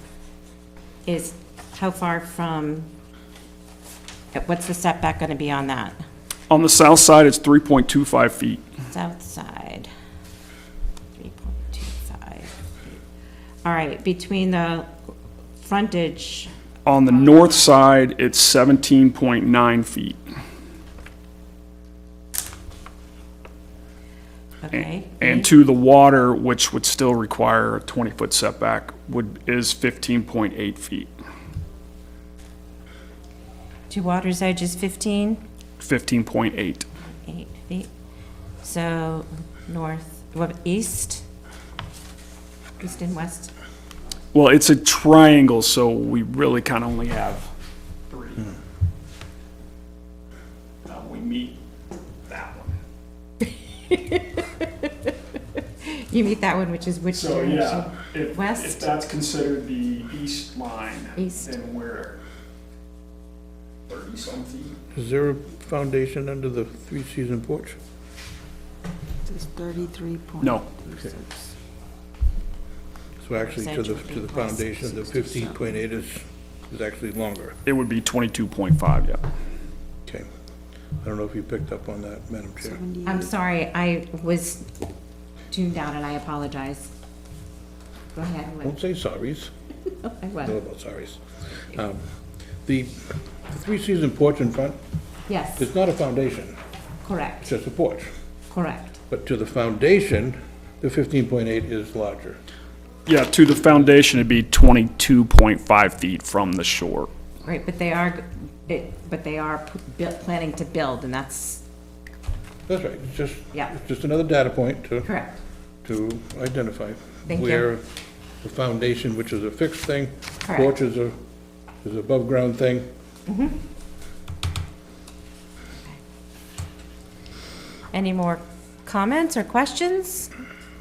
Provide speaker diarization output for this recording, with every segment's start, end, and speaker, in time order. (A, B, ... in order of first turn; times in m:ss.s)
0:01.1-0:02.9 A
0:04.3-0:06.0 A
0:06.5-0:08.6 B
0:08.9-0:09.9 A
0:11.2-0:13.0 A
0:13.6-0:14.9 A
0:15.6-0:17.8 A
0:16.8-0:20.2 B
0:24.6-0:25.5 A
0:24.8-0:31.1 B
0:33.9-0:35.4 A
0:35.8-0:36.9 B
0:37.2-0:37.9 A
0:38.6-0:41.2 A
0:42.8-0:43.5 A
0:44.3-0:47.5 B
0:48.1-0:48.5 B
0:50.8-0:51.6 B
0:52.3-0:52.7 B
0:53.4-0:55.1 A
0:55.8-0:58.9 A
0:57.1-1:02.2 B
1:01.2-1:01.5 A
1:03.9-1:04.8 B
1:04.9-1:07.8 C
1:09.2-1:11.6 D
1:10.4-1:10.7 B
1:13.2-1:17.6 C
1:13.4-1:15.1 A
1:17.7-1:19.2 B
1:21.0-1:22.8 C
1:22.6-1:23.3 D
1:23.1-1:24.7 A
1:25.5-1:26.9 A
1:28.1-1:28.8 A
1:28.6-1:29.5 C
1:30.0-1:30.6 A
1:30.4-1:32.1 C
1:32.6-1:34.8 C
1:35.3-1:35.7 A
1:35.6-1:36.6 C
1:37.0-1:37.5 A
1:37.4-1:38.1 C
1:38.5-1:39.0 A
1:39.1-1:42.4 C
1:43.1-1:47.1 B
1:47.4-1:51.6 A
1:52.7-1:55.1 C
1:55.0-1:55.4 A
1:55.8-1:57.8 C
1:57.3-1:57.7 A
1:58.4-2:01.2 C
2:00.4-2:00.8 A
2:01.8-2:02.9 C
2:03.3-2:03.6 A
2:07.9-2:10.3 A